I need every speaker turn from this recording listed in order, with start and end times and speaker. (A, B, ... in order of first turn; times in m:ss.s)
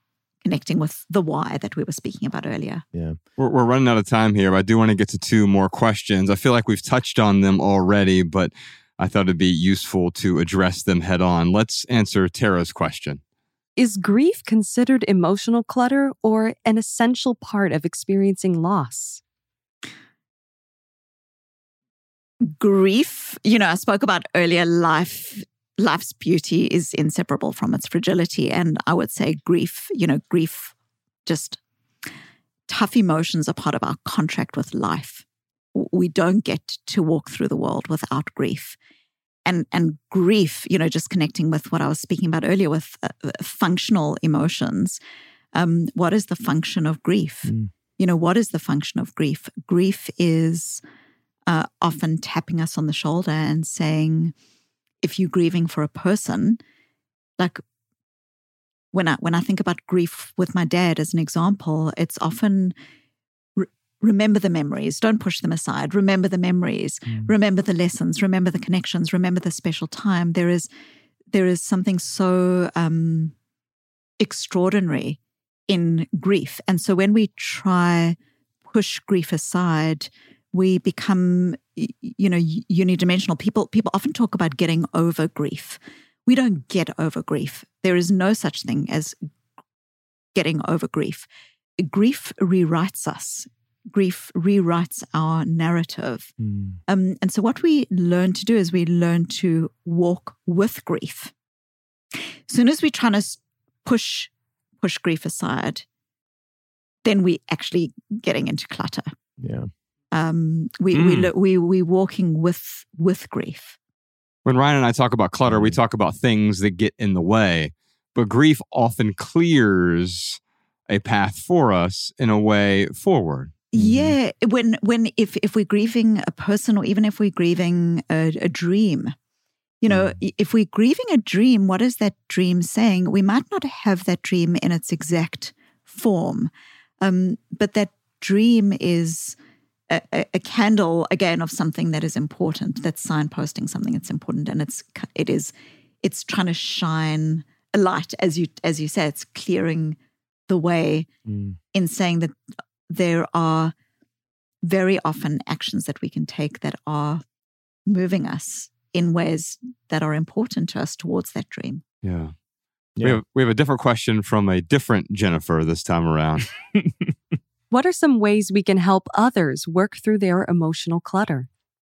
0:00.4-0:02.8 A
0:03.4-0:13.2 B
0:13.8-0:19.2 C
0:22.4-0:30.7 A
0:31.3-0:31.6 A
0:32.7-0:35.2 A
0:35.8-0:38.8 A
0:39.5-0:45.0 A
0:45.5-0:50.8 A
0:47.5-0:47.7 D
0:51.5-0:54.3 A
0:55.0-0:56.6 A
0:58.9-1:02.7 A
1:03.6-1:10.7 A
1:11.3-1:13.3 A
1:14.2-1:18.2 A
1:18.7-1:29.2 A
1:30.4-1:31.3 A
1:31.8-1:36.3 A
1:36.4-1:36.8 D
1:36.9-1:41.3 A
1:42.5-1:45.8 A
1:47.0-1:49.1 A
1:49.4-1:49.7 D
1:50.1-1:53.8 A
1:50.9-1:51.3 D
1:54.4-2:03.6 B
1:55.5-1:55.8 D
2:03.7-2:09.2 A
2:03.8-2:04.2 D
2:09.8-2:19.4 A
2:19.9-2:30.0 A
2:30.5-2:31.1 A
2:31.3-2:31.6 D
2:31.7-2:32.4 A
2:32.9-2:33.7 A
2:34.6-2:37.2 A
2:37.9-2:41.8 A
2:42.0-2:42.3 B
2:43.0-2:46.5 B
2:46.8-2:47.1 D
2:47.7-2:51.5 C